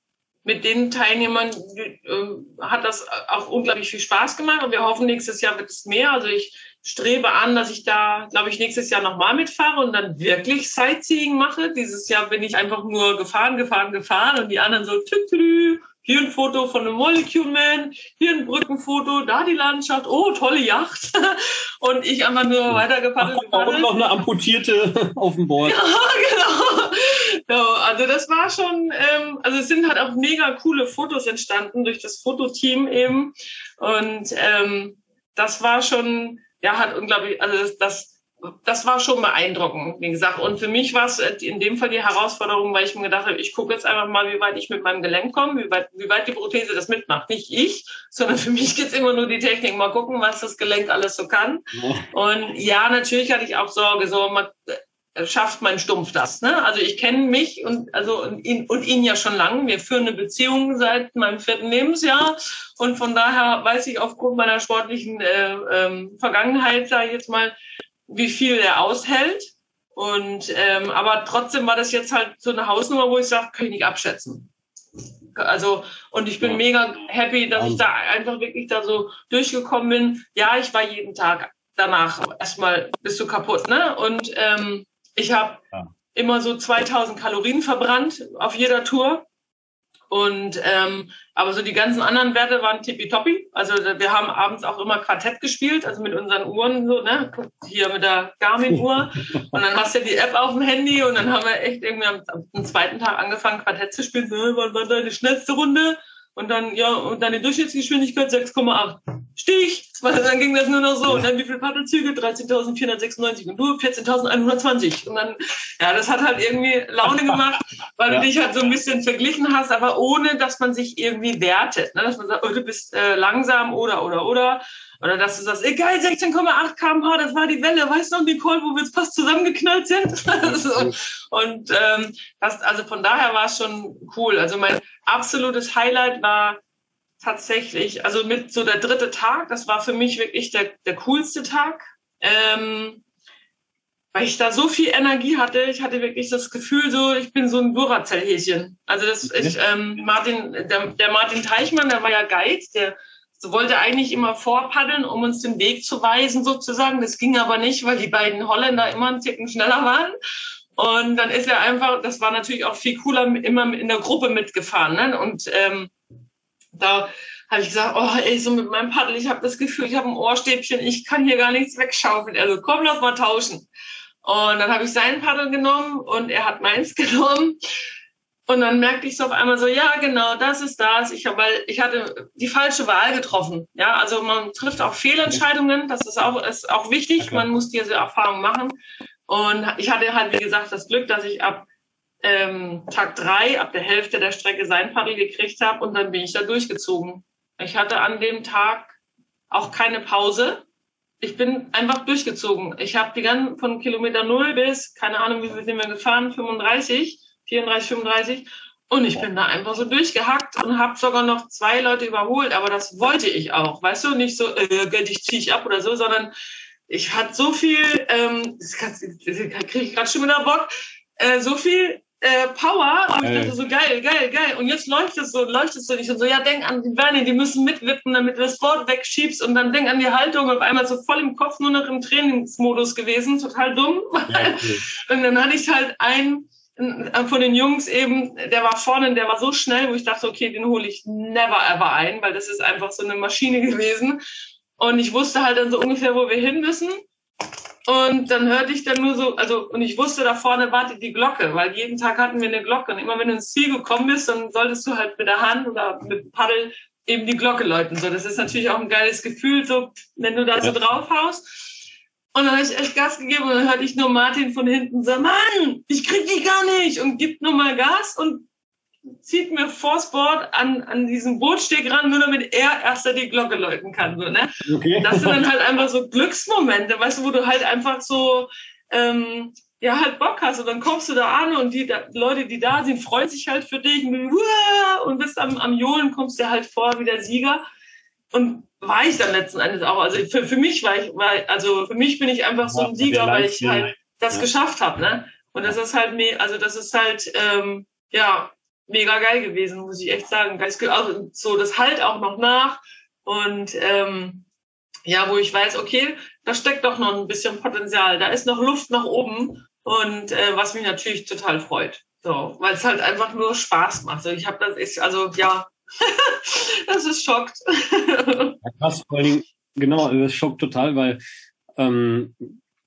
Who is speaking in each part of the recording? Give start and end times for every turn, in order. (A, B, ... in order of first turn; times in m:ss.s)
0:00.4-0:23.9 A
0:22.7-0:25.8 B
0:25.6-1:07.6 A
0:51.8-0:52.1 B
1:08.1-1:14.5 A
1:15.4-1:25.6 A
1:17.5-1:17.8 B
1:26.1-1:29.2 A
1:30.1-2:16.6 A
2:10.4-2:11.0 B
2:17.2-2:23.0 A
2:24.1-2:40.2 A
2:29.2-2:29.6 B
2:40.8-2:45.9 A
2:46.8-2:53.7 A
2:54.2-2:57.6 A
2:58.5-3:08.8 A
3:07.2-3:07.4 B
3:09.3-3:11.7 A
3:12.2-3:19.0 A
3:19.5-3:20.6 A
3:21.2-3:36.3 A
3:36.9-4:04.2 A
3:43.2-3:43.6 B
3:54.3-3:54.8 B
4:04.8-4:07.0 A
4:07.9-4:21.7 A
4:22.3-4:28.5 A
4:29.2-4:47.6 A
4:34.7-4:35.4 B
4:48.3-5:04.4 A
4:52.7-4:54.5 B
5:05.1-5:18.6 A
5:18.6-5:21.2 B
5:21.8-5:22.6 B